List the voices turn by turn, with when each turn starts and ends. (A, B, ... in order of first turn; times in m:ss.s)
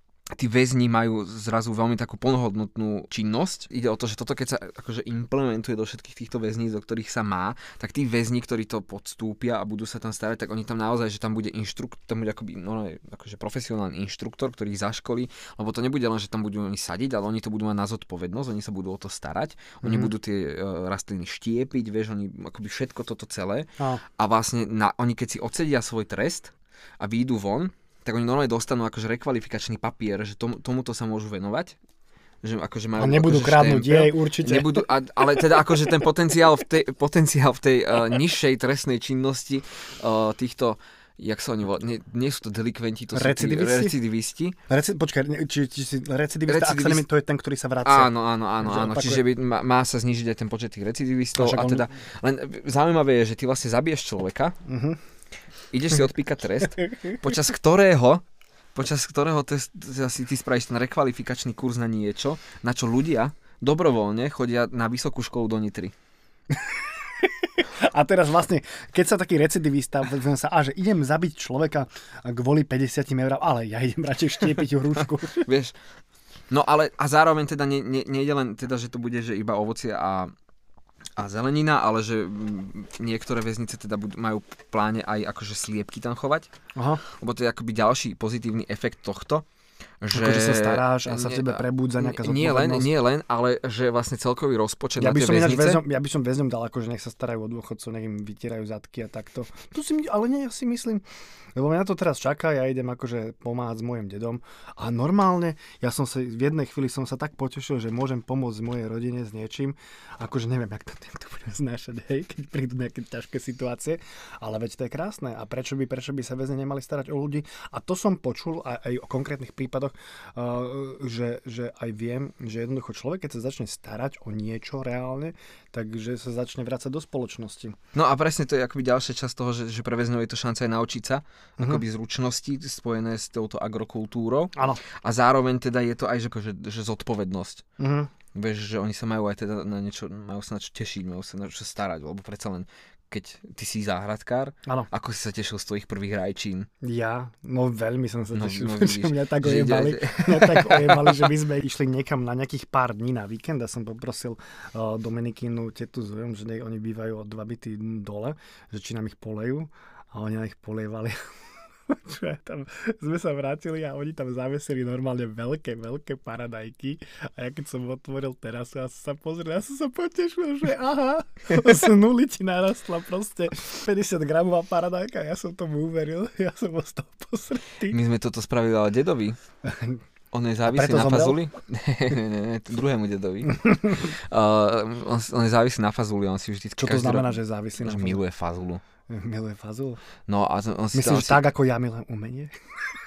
0:00.4-0:31.8 A
0:19.8-0:20.1 B
0:32.4-0:44.6 A
0:33.0-0:35.9 B
0:43.1-0:44.0 B
0:44.7-0:49.3 B
0:46.5-0:47.1 A
0:47.8-0:54.6 A
0:51.4-0:51.9 B
0:54.6-0:55.0 B
0:55.7-0:58.2 A
0:58.8-1:05.9 A
1:06.5-1:15.5 B
1:15.3-1:15.8 A
1:16.5-1:20.3 A
1:21.2-1:26.5 A
1:26.8-1:27.0 B
1:27.1-1:29.4 A
1:30.0-1:35.8 A
1:30.1-1:32.9 B
1:35.0-1:41.0 B
1:41.6-2:07.8 B
2:08.0-2:17.6 A
2:11.6-2:11.8 B
2:14.6-2:14.8 B
2:17.8-2:18.1 B
2:18.3-2:26.7 A
2:26.8-2:41.2 B
2:28.3-2:31.3 A
2:41.9-2:58.0 B
2:57.9-2:59.4 A
2:59.6-3:00.0 B
3:00.3-3:08.8 A
3:00.7-3:01.4 B
3:03.5-3:04.1 B
3:06.8-3:08.2 B
3:09.1-3:10.0 B
3:10.3-3:11.4 A
3:10.9-3:12.5 B